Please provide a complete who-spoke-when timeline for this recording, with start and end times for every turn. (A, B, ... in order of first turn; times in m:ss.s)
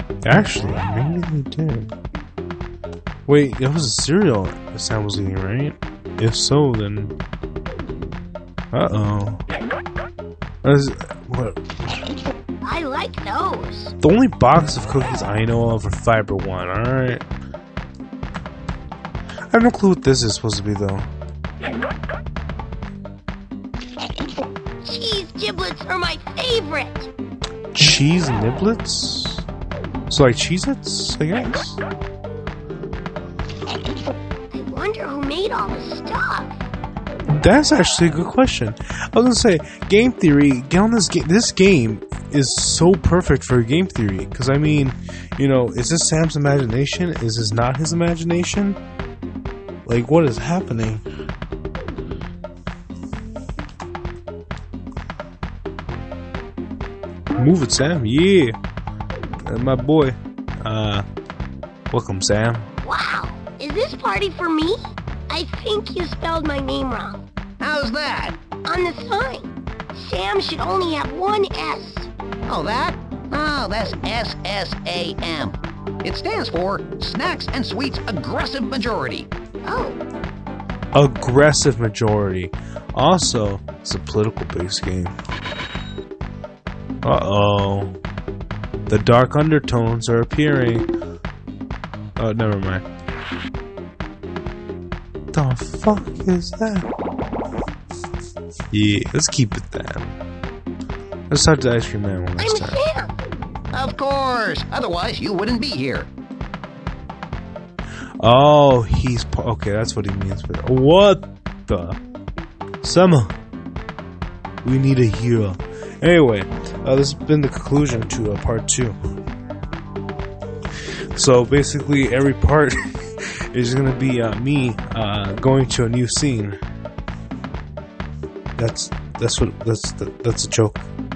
0:00.2-0:01.9 A
0:03.3-0:07.2 A
0:08.7-0:09.4 A
0:10.6-0:12.0 A
0:12.6-0:13.9 B
0:14.0-0:17.2 A
0:19.5-0:21.1 A
0:24.8-0:27.1 B
0:27.7-0:29.5 A
0:30.1-0:31.8 A
0:34.5-0:36.6 B
0:37.3-0:48.8 A
0:49.9-0:51.0 A
0:57.4-0:58.6 A
0:59.4-1:01.0 A
1:01.9-1:02.7 A
1:02.8-1:04.8 B
1:05.3-1:07.2 B
1:07.6-1:08.4 C
1:08.6-1:12.1 B
1:12.5-1:19.3 C
1:19.6-1:20.0 B
1:20.9-1:25.2 A
1:27.0-1:28.0 A
1:28.9-1:30.9 A
1:32.2-1:32.8 A
1:35.3-1:36.9 A
1:38.7-1:40.1 A
1:41.3-1:42.8 A
1:42.4-1:43.2 B
1:43.7-1:46.1 C
1:48.2-1:52.0 A
1:52.8-1:53.3 A
1:54.6-1:59.0 A
2:01.2-2:06.6 A
2:08.6-2:10.9 A